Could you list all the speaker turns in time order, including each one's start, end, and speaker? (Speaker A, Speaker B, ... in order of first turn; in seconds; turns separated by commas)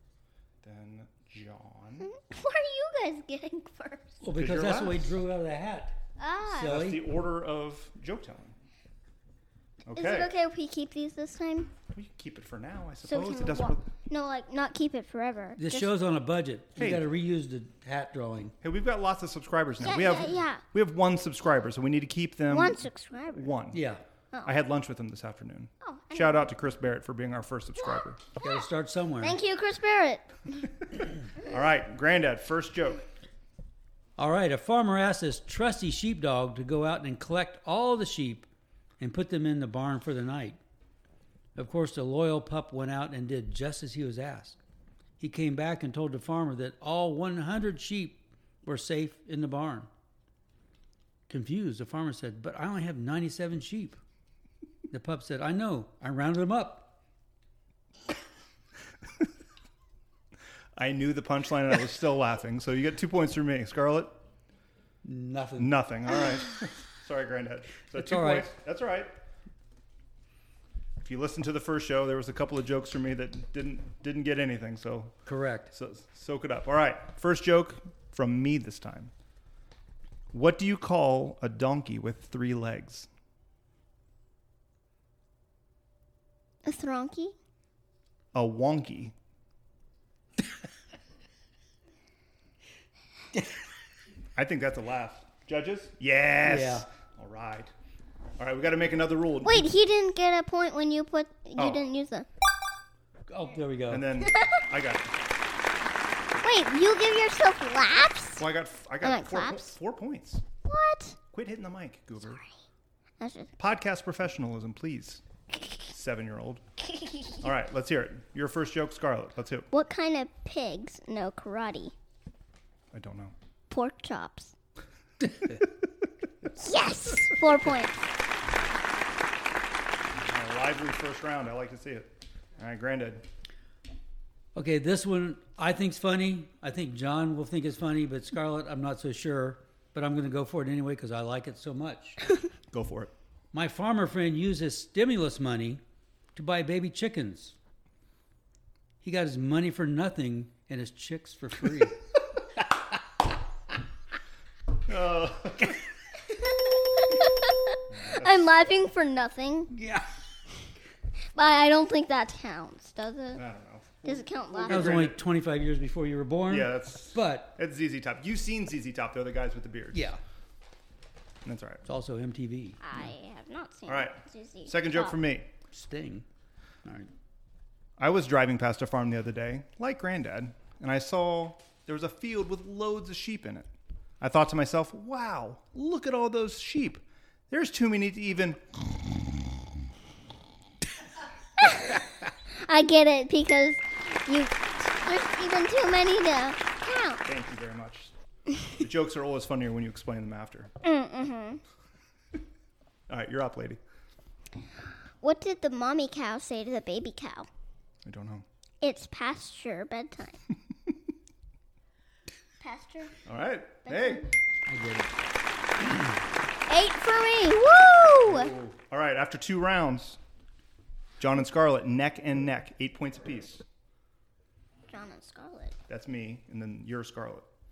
Speaker A: 0.6-2.1, Speaker B: 2.0-4.2, Speaker C: 4.2-7.1, Speaker A: 4.4-5.1, Speaker B: 6.2-6.8, Speaker A: 6.7-8.5, Speaker A: 9.8-10.3, Speaker B: 9.9-11.7, Speaker A: 11.9-13.9, Speaker B: 13.0-15.9, Speaker C: 15.6-18.5, Speaker A: 16.8-17.0, Speaker A: 18.6-22.8, Speaker B: 19.8-20.6, Speaker B: 22.5-23.5, Speaker A: 23.3-23.8, Speaker C: 23.7-24.0, Speaker B: 24.3-24.6, Speaker A: 24.4-28.2, Speaker B: 25.8-26.5, Speaker B: 27.8-28.6, Speaker C: 28.4-29.4, Speaker B: 29.2-30.6, Speaker A: 31.4-33.0, Speaker C: 34.2-38.5, Speaker C: 39.0-40.6, Speaker C: 41.5-44.6, Speaker C: 45.2-49.9, Speaker C: 51.3-54.0, Speaker C: 54.9-56.9, Speaker A: 60.8-64.1, Speaker C: 65.0-65.8, Speaker A: 65.6-69.1, Speaker C: 67.9-68.5, Speaker A: 71.0-75.2, Speaker C: 75.2-75.7, Speaker A: 75.7-79.1, Speaker A: 80.3-83.1, Speaker B: 86.6-87.3, Speaker A: 88.3-89.1, Speaker A: 94.3-97.7, Speaker C: 96.4-96.8, Speaker A: 98.4-99.7, Speaker B: 99.4-102.3, Speaker A: 101.6-101.8, Speaker C: 103.3-104.0, Speaker A: 103.9-105.1, Speaker B: 106.4-108.4, Speaker A: 108.4-110.4, Speaker B: 109.0-109.8, Speaker B: 110.6-111.2, Speaker A: 111.3-112.4, Speaker B: 112.2-112.5, Speaker B: 113.2-113.5, Speaker A: 113.6-115.2, Speaker A: 115.9-116.6, Speaker B: 117.0-117.4, Speaker A: 117.4-119.7, Speaker B: 119.7-121.9, Speaker A: 122.9-123.3, Speaker B: 123.7-124.5, Speaker B: 126.5-128.0, Speaker A: 130.1-133.2, Speaker C: 134.5-142.2, Speaker A: 142.7-143.1, Speaker C: 143.5-145.8, Speaker C: 146.3-147.5, Speaker C: 149.0-151.9, Speaker A: 154.9-155.8, Speaker B: 156.3-159.7, Speaker A: 157.9-158.5, Speaker C: 159.7-160.2, Speaker B: 161.3-163.4, Speaker A: 163.3-165.2, Speaker B: 164.0-165.0, Speaker C: 164.7-167.5, Speaker A: 166.5-170.1, Speaker C: 169.9-170.2, Speaker A: 171.4-171.8, Speaker C: 171.8-172.8, Speaker B: 172.8-175.2, Speaker A: 173.9-175.5, Speaker C: 175.7-176.2, Speaker C: 176.8-177.1, Speaker A: 178.0-183.7, Speaker A: 184.2-188.6, Speaker B: 191.6-197.2, Speaker A: 197.2-198.1, Speaker A: 198.8-200.7, Speaker B: 200.8-201.6, Speaker A: 203.1-203.8, Speaker B: 205.2-207.5, Speaker A: 208.0-208.4, Speaker B: 208.8-210.4, Speaker B: 212.6-213.2, Speaker A: 213.2-214.3, Speaker B: 213.8-214.3, Speaker C: 214.7-215.1, Speaker B: 216.7-218.5, Speaker A: 218.2-220.2, Speaker A: 221.2-223.6, Speaker B: 224.9-225.7, Speaker A: 225.9-227.5